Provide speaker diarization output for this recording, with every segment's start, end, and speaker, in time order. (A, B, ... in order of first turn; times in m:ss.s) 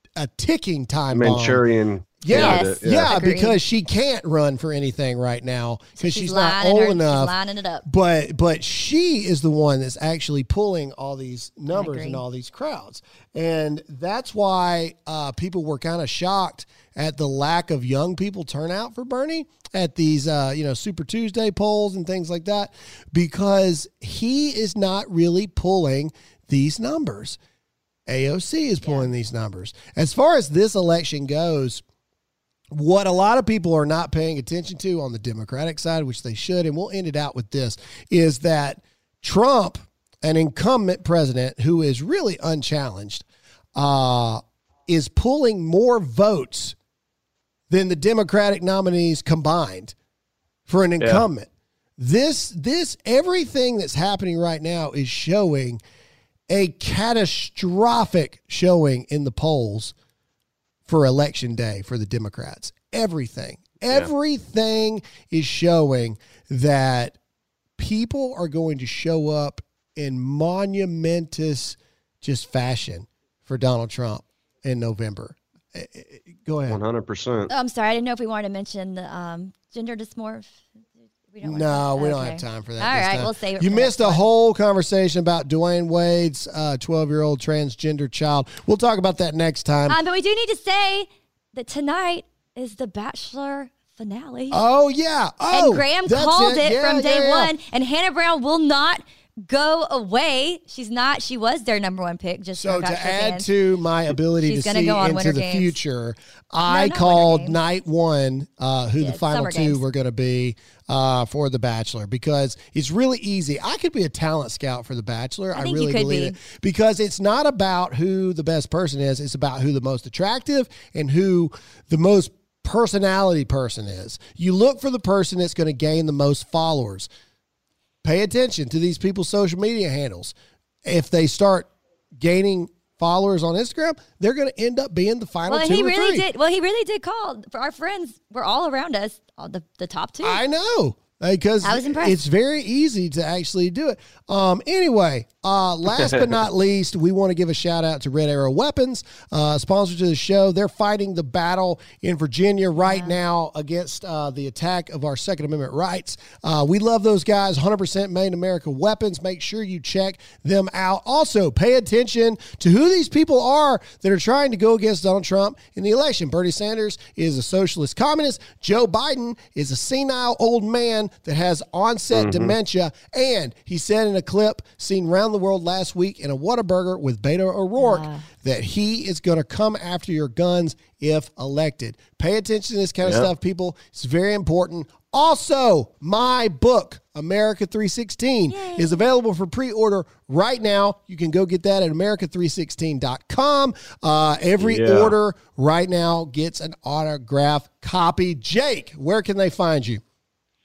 0:00.2-0:01.6 A
0:01.1-0:03.1 B
0:02.2-0:07.3 A
0:02.3-0:03.6 C
0:06.0-0:07.8 C
0:07.8-0:27.4 A
0:11.7-0:12.2 C
0:28.0-0:31.8 A
0:28.8-0:29.1 C
0:32.7-0:46.8 A
0:47.7-0:49.9 A
0:50.7-0:55.8 A
0:56.5-0:59.9 A
1:00.8-1:07.2 A
1:07.8-1:16.8 A
1:16.7-1:17.5 B
1:17.5-1:20.5 C
1:21.3-1:24.2 C
1:21.4-1:30.0 A
1:29.9-1:34.6 C
1:34.5-1:37.5 A
1:35.5-1:43.5 C
1:42.6-2:07.1 A
1:44.4-1:45.8 C
1:46.7-1:47.6 C
1:49.0-1:49.8 C
1:55.5-1:56.4 C
2:08.0-2:10.3 A
2:10.8-2:16.2 A
2:15.5-2:20.4 C
2:20.2-3:20.0 A
2:21.6-2:22.2 C
2:32.8-2:33.1 C
2:52.1-2:52.5 B
2:57.8-2:58.2 C
3:03.0-3:03.3 B
3:08.5-3:09.0 C
3:14.6-3:15.2 B